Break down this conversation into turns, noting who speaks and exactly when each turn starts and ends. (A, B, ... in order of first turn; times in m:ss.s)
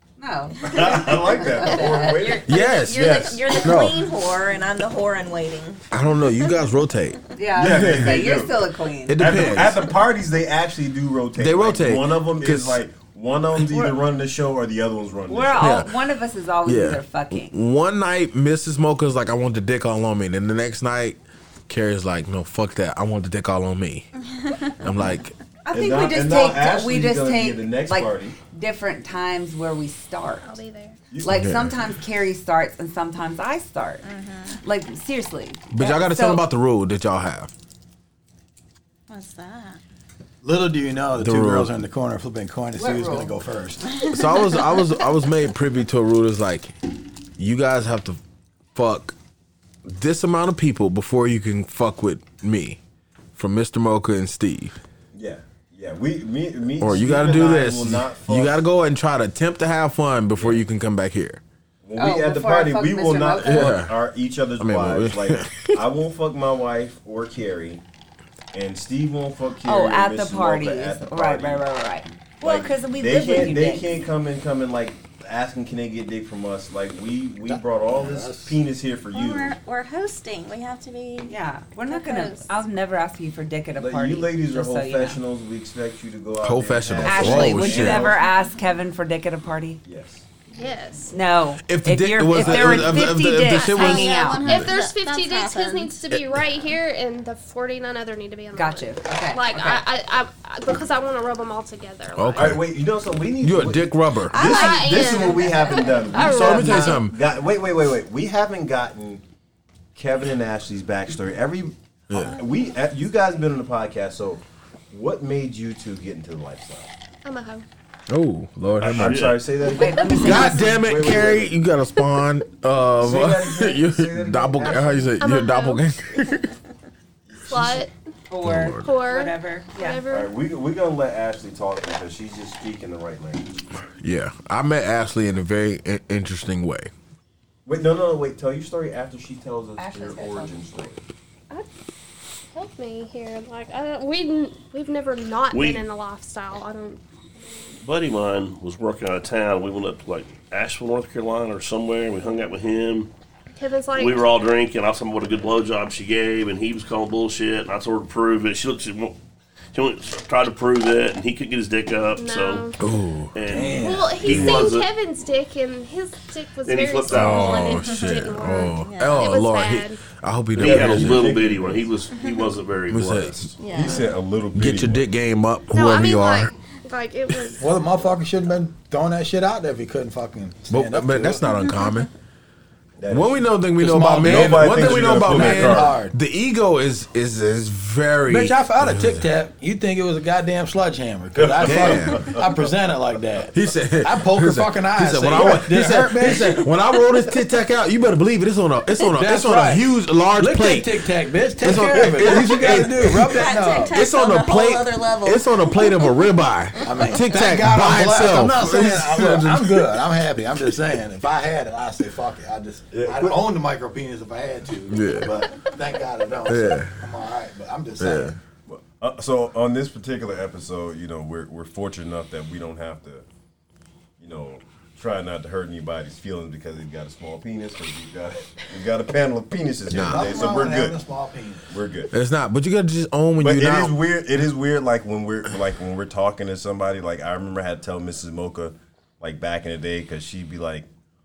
0:00.2-0:01.0 A
0:00.6-0:05.8 B
0:00.6-0:03.6 C
0:01.6-0:02.2 A
0:02.4-0:04.0 D
0:05.9-0:08.3 D
0:07.3-0:09.4 A
0:07.6-0:08.6 C
0:09.1-0:09.9 D
0:09.2-0:15.7 C
0:11.4-0:12.8 D
0:15.3-0:17.5 A
0:15.6-0:15.9 D
0:16.6-0:21.2 D
0:21.7-0:24.1 D
0:24.3-0:24.8 B
0:24.8-0:25.3 D
0:25.6-0:30.6 A
0:25.7-0:28.4 C
0:30.3-0:31.0 E
0:31.1-0:31.5 C
0:31.2-0:34.0 A
0:31.2-0:31.7 D
0:34.0-0:34.6 B
0:34.6-0:36.4 A
0:35.7-0:37.5 D
0:39.1-0:39.8 B
0:40.4-0:44.0 F
0:41.1-0:41.7 D
0:42.8-0:43.3 A
0:44.0-0:45.0 B
0:44.0-0:46.8 D
0:47.4-0:48.2 D
0:48.7-0:49.1 D
0:49.8-0:52.8 D
0:53.4-0:54.8 D
0:55.1-0:58.6 C
0:56.8-1:01.4 D
1:00.4-1:00.6 C
1:01.8-1:07.8 C
1:02.0-1:03.8 A
1:03.4-1:03.9 D
1:04.6-1:05.8 D
1:08.5-1:11.6 C
1:09.6-1:13.9 A
1:12.4-1:19.6 C
1:17.5-1:18.6 F
1:19.1-1:21.3 B
1:21.3-1:25.2 A
1:21.9-1:22.5 B
1:23.8-1:28.2 C
1:26.4-1:28.1 D
1:27.0-1:29.8 A
1:29.8-1:30.2 C
1:30.5-1:31.2 E
1:31.1-1:34.5 A
1:31.6-1:34.6 D
1:32.4-1:33.0 C
1:33.6-1:36.0 B
1:34.4-1:42.6 E
1:38.5-1:39.8 A
1:42.2-1:42.6 D
1:42.4-1:49.2 C
1:43.4-1:44.4 D
1:44.3-1:46.4 B
1:44.4-1:47.0 E
1:46.2-1:47.2 D
1:49.9-1:56.9 C
1:52.1-1:52.4 D
1:57.2-1:57.6 E
1:58.1-1:59.3 D
1:58.8-1:59.4 G
1:58.9-2:01.6 C
1:59.7-2:00.7 A
1:59.8-2:00.5 E
2:00.2-2:06.5 D
2:02.0-2:02.2 E
2:03.0-2:05.2 C
2:05.2-2:05.8 E
2:07.3-2:07.8 C
2:07.4-2:07.9 E
2:08.3-2:10.0 A
2:08.4-2:08.9 D
2:08.8-2:10.3 E
2:10.1-2:13.5 C
2:14.0-2:16.9 D
2:17.6-2:21.0 C
2:19.8-2:20.9 A
2:22.5-2:27.8 E
2:25.5-2:25.8 G
2:27.8-2:33.1 G
2:33.5-2:34.4 E
2:33.9-2:39.2 G
2:39.7-2:42.7 G
2:42.2-2:42.8 E
2:42.8-2:43.4 D
2:43.3-2:44.9 G
2:43.4-2:44.3 F
2:43.8-2:50.0 E
2:46.6-2:47.7 G
2:47.1-2:51.4 D
2:47.6-2:49.3 B
2:50.5-2:53.4 G
2:50.6-2:52.0 C
2:52.1-2:52.5 B
2:52.9-2:53.6 D
2:53.6-2:54.1 B
2:53.7-2:55.1 C
2:54.5-2:56.5 D
2:55.7-2:57.8 E
2:57.6-3:01.5 F
3:00.7-3:02.1 D
3:03.0-3:03.5 C
3:03.1-3:09.2 D
3:03.8-3:06.2 F
3:04.1-3:06.0 C
3:08.2-3:16.7 F
3:11.3-3:12.4 C
3:11.6-3:12.4 D
3:13.5-3:20.9 D
3:19.1-3:24.0 F
3:21.6-3:30.0 D
3:22.1-3:22.3 C
3:23.1-3:27.2 B
3:26.8-3:38.3 F
3:32.9-3:33.4 C
3:34.9-3:35.4 D
3:36.4-3:37.0 D
3:38.0-3:38.4 D
3:38.7-3:43.2 C
3:44.2-3:51.0 C
3:49.9-3:50.4 D
3:49.9-3:51.7 F
3:51.7-3:52.1 C
3:52.1-3:53.9 D
3:53.4-4:00.9 C